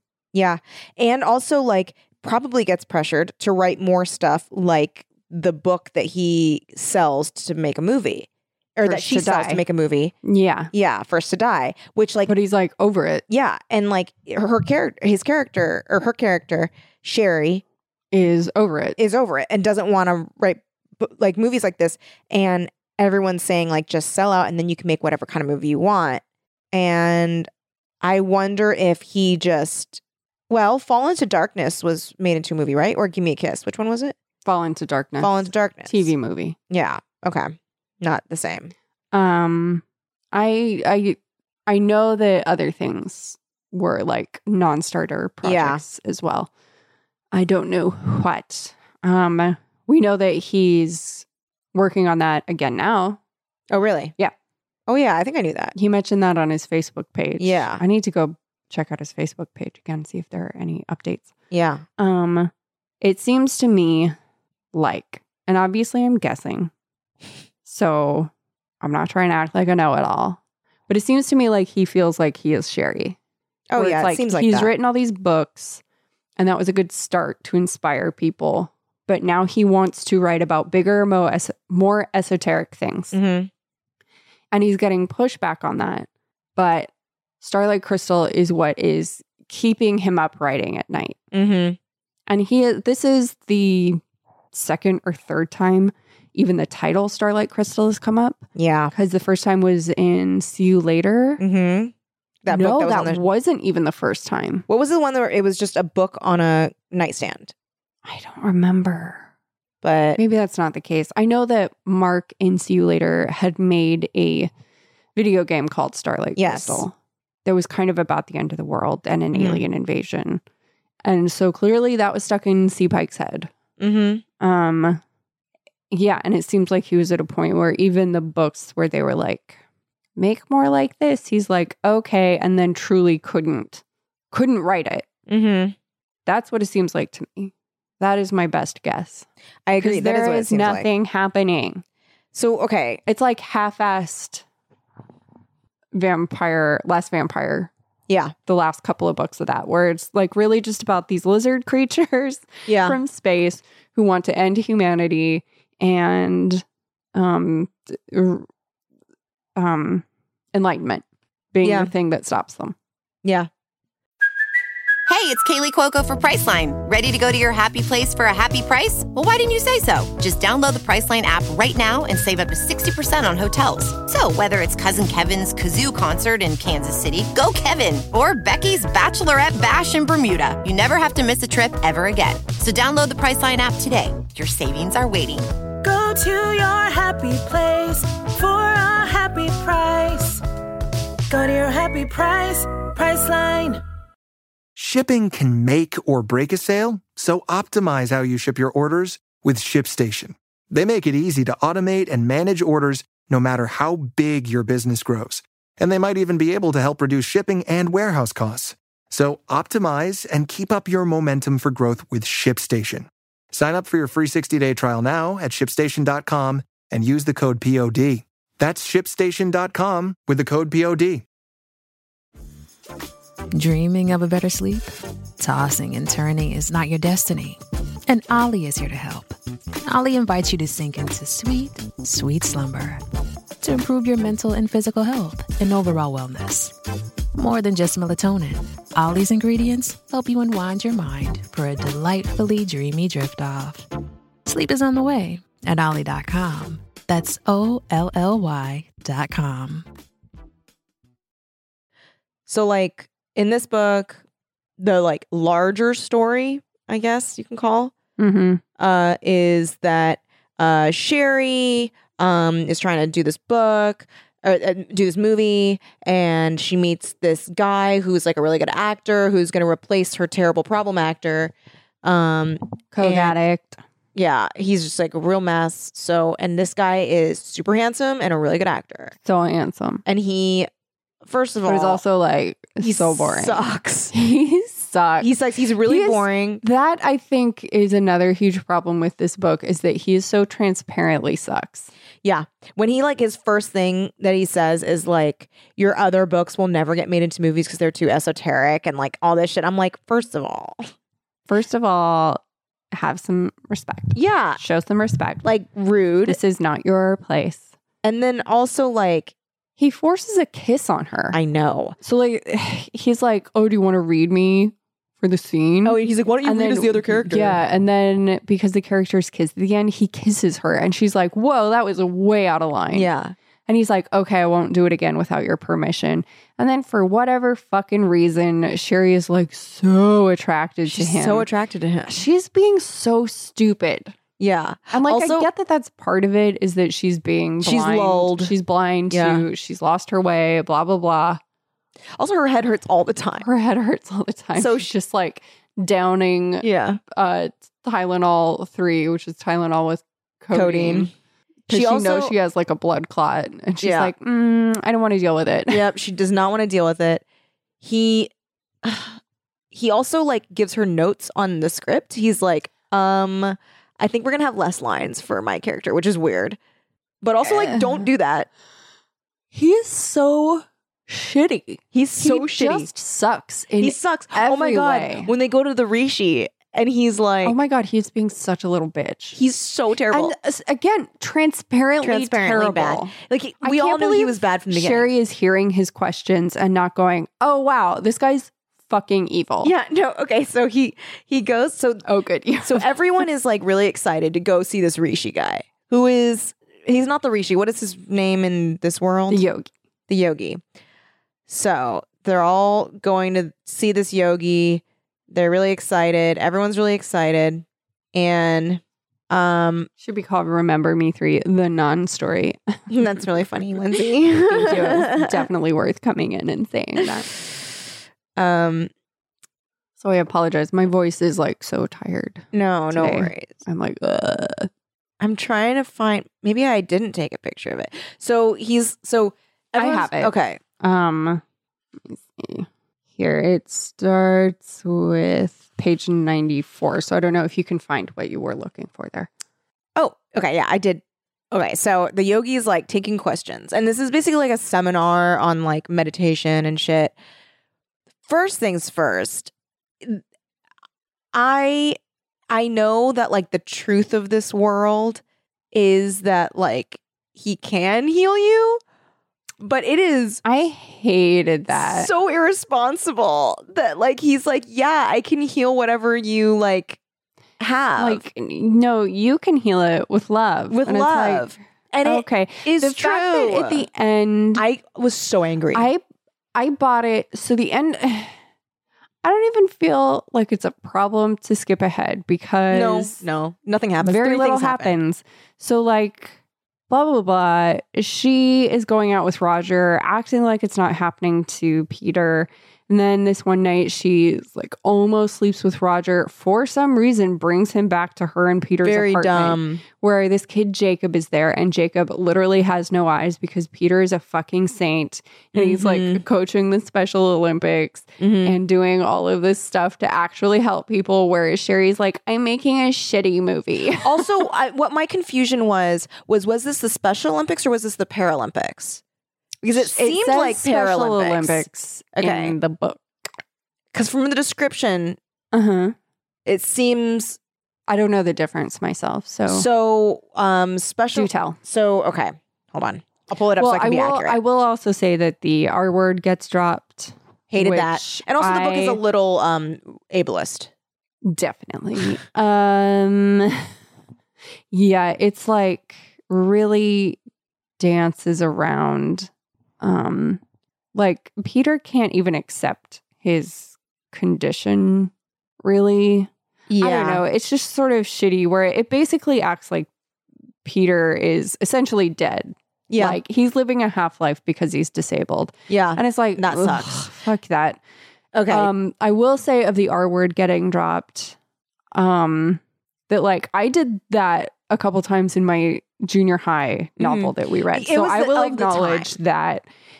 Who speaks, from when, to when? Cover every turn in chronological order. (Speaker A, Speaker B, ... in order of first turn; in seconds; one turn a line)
Speaker A: 0.3-10.1
Speaker B: 8.8-9.6
Speaker B: 10.2-10.7
Speaker A: 10.7-12.3
Speaker B: 12.2-13.2
Speaker A: 13.3-17.6
Speaker B: 18.1-19.0
Speaker A: 19.0-27.5
Speaker A: 28.0-34.1
Speaker B: 34.4-36.5
Speaker A: 35.2-36.1
Speaker A: 36.7-38.7
Speaker B: 39.1-46.5
Speaker A: 45.4-45.8
Speaker B: 47.3-53.2
Speaker A: 53.7-54.1
Speaker A: 54.9-55.7
Speaker B: 55.7-61.3
Speaker A: 57.4-57.8
Speaker A: 61.5-61.8
Speaker B: 62.0-64.1
Speaker B: 64.7-66.7
Speaker B: 67.6-68.3
Speaker B: 68.8-73.2
Speaker A: 73.7-74.7
Speaker B: 73.7-75.8
Speaker B: 76.4-83.1
Speaker A: 83.1-83.5
Speaker B: 84.5-91.2
Speaker A: 91.3-91.8
Speaker B: 92.3-94.0
Speaker B: 94.5-101.4
Speaker A: 98.5-98.9
Speaker A: 101.4-101.9
Speaker A: 102.4-103.2
Speaker B: 102.5-104.6
Speaker A: 104.7-107.5
Speaker B: 108.0-109.3
Speaker A: 109.8-110.2
Speaker B: 110.2-114.5
Speaker B: 115.1-116.9
Speaker A: 116.4-116.8
Speaker B: 117.4-120.4
Speaker A: 119.3-119.6
Speaker B: 121.0-123.5
Speaker A: 123.8-124.2
Speaker B: 124.4-125.0
Speaker B: 125.9-129.6
Speaker B: 130.2-135.1
Speaker A: 135.3-135.7
Speaker B: 136.2-139.2
Speaker A: 139.7-140.9
Speaker B: 139.8-141.8
Speaker A: 142.3-143.0
Speaker B: 143.1-144.4
Speaker B: 145.9-147.7
Speaker A: 148.1-148.3
Speaker B: 148.5-156.6
Speaker A: 152.7-153.0
Speaker B: 157.1-158.5
Speaker B: 159.6-162.7
Speaker A: 161.6-161.9
Speaker A: 163.2-163.5
Speaker C: 165.1-185.5
Speaker D: 185.8-190.4
Speaker D: 191.3-193.8
Speaker E: 194.8-221.2
Speaker F: 223.5-233.0
Speaker F: 233.6-236.7
Speaker F: 237.3-243.8
Speaker F: 244.4-249.9
Speaker A: 252.5-254.2
Speaker A: 254.8-257.9
Speaker B: 258.2-258.6
Speaker A: 258.8-271.5
Speaker A: 272.0-273.4
Speaker B: 272.9-273.8
Speaker A: 274.1-279.1
Speaker B: 279.2-280.0
Speaker A: 280.1-280.7
Speaker A: 281.2-282.0
Speaker B: 281.6-285.3
Speaker A: 282.8-284.1
Speaker A: 285.2-286.6
Speaker B: 285.8-291.9
Speaker A: 292.2-300.9
Speaker B: 301.5-302.4
Speaker B: 302.9-305.4
Speaker A: 304.1-304.6
Speaker A: 305.4-306.4
Speaker B: 306.2-307.7
Speaker A: 308.0-309.3
Speaker B: 309.8-311.4
Speaker A: 311.3-312.0
Speaker B: 312.0-323.1
Speaker A: 315.8-317.6
Speaker A: 322.9-323.3
Speaker B: 323.7-331.4
Speaker A: 330.9-332.2
Speaker B: 332.1-334.1
Speaker A: 334.4-335.5
Speaker B: 334.9-341.4
Speaker A: 337.6-338.5
Speaker A: 339.1-339.4
Speaker A: 342.1-343.4
Speaker B: 343.4-351.1
Speaker A: 344.5-344.9
Speaker A: 346.6-347.0
Speaker A: 350.5-351.1
Speaker A: 351.7-352.3
Speaker B: 351.7-355.9
Speaker A: 353.8-354.1
Speaker A: 355.7-357.2
Speaker A: 357.8-358.3
Speaker A: 358.8-359.2
Speaker A: 359.7-366.6
Speaker A: 367.2-368.5
Speaker B: 367.4-368.1
Speaker B: 369.5-375.3
Speaker A: 371.9-372.9
Speaker A: 373.8-377.6
Speaker B: 377.4-379.4
Speaker A: 379.3-380.3
Speaker B: 380.1-389.7
Speaker A: 382.0-385.1
Speaker A: 389.6-392.0
Speaker B: 392.0-392.9
Speaker A: 392.6-399.4
Speaker B: 399.3-399.7
Speaker A: 400.1-400.6
Speaker A: 401.5-409.9
Speaker B: 410.0-412.9
Speaker A: 412.9-415.4
Speaker B: 414.4-417.3
Speaker A: 418.4-418.9
Speaker B: 420.0-424.7
Speaker A: 422.5-423.5
Speaker A: 425.2-430.6
Speaker B: 429.8-431.4
Speaker B: 432.1-439.3
Speaker A: 439.9-447.1
Speaker A: 448.2-450.2
Speaker A: 451.3-452.0
Speaker A: 452.5-458.8
Speaker A: 459.6-460.4
Speaker B: 460.4-462.1
Speaker A: 461.7-467.0
Speaker A: 467.6-468.2
Speaker B: 468.0-471.5
Speaker A: 470.7-473.9
Speaker B: 472.0-474.6
Speaker A: 474.5-475.9
Speaker B: 475.7-476.0
Speaker B: 476.5-478.3
Speaker B: 479.2-483.2
Speaker A: 482.7-484.9
Speaker B: 484.0-486.3
Speaker B: 486.9-514.3
Speaker A: 498.8-499.8
Speaker A: 505.5-506.2
Speaker A: 508.2-508.6
Speaker A: 514.0-519.0
Speaker A: 519.6-522.5
Speaker B: 519.8-523.0
Speaker A: 523.9-525.2
Speaker B: 525.5-525.9
Speaker A: 526.5-527.4
Speaker B: 527.9-529.6
Speaker A: 529.5-534.4
Speaker B: 531.1-531.6
Speaker B: 533.6-539.0
Speaker A: 537.5-540.7
Speaker B: 541.2-543.6
Speaker B: 544.7-547.2
Speaker B: 547.8-549.3
Speaker B: 549.8-550.4
Speaker B: 550.9-555.1
Speaker B: 555.6-559.9
Speaker A: 556.7-557.2
Speaker B: 560.6-567.8
Speaker A: 562.9-563.2
Speaker A: 565.7-567.1
Speaker A: 568.3-568.7
Speaker B: 568.5-571.4
Speaker B: 571.9-579.6
Speaker A: 577.0-579.1